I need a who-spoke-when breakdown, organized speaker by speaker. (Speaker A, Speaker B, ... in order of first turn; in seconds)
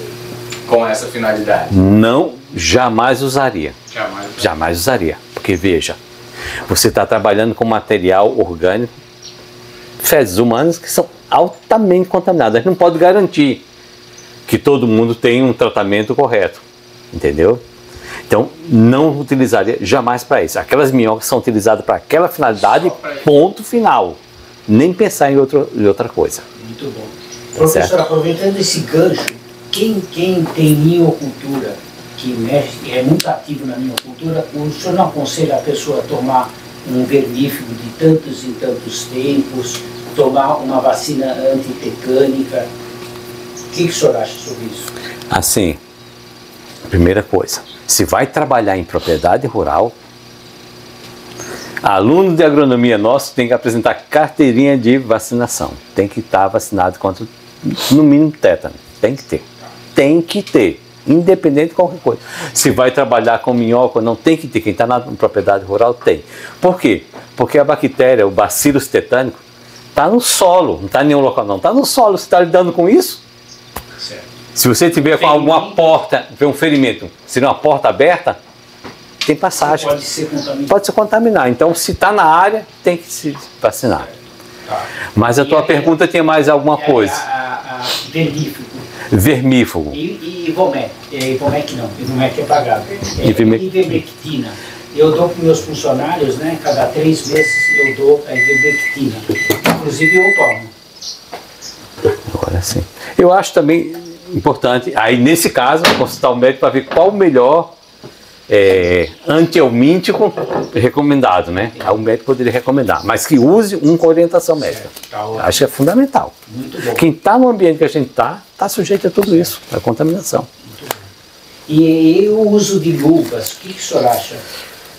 Speaker A: 0.6-1.8, 3.9-4.5, 22.8-23.3
Speaker B: 1.7-3.8, 4.4-6.0, 6.7-8.9, 10.0-13.6, 14.5-17.6, 18.3-26.4, 27.6-27.9, 45.3-45.8, 46.9-49.9, 51.8-69.4, 69.9-73.2, 74.5-78.4, 79.2-80.0, 80.7-84.1, 85.1-87.2, 89.1-90.0, 93.2-93.9, 102.3-107.7, 108.5-116.3, 116.9-120.5
Speaker C: 26.6-42.7, 43.7-44.9, 74.0-74.2, 75.0-75.8, 79.6-80.8, 84.7-86.0, 86.7-88.9, 89.9-100.7, 111.6-112.0, 114.6-115.5, 116.5-117.0, 120.7-121.0, 121.7-124.4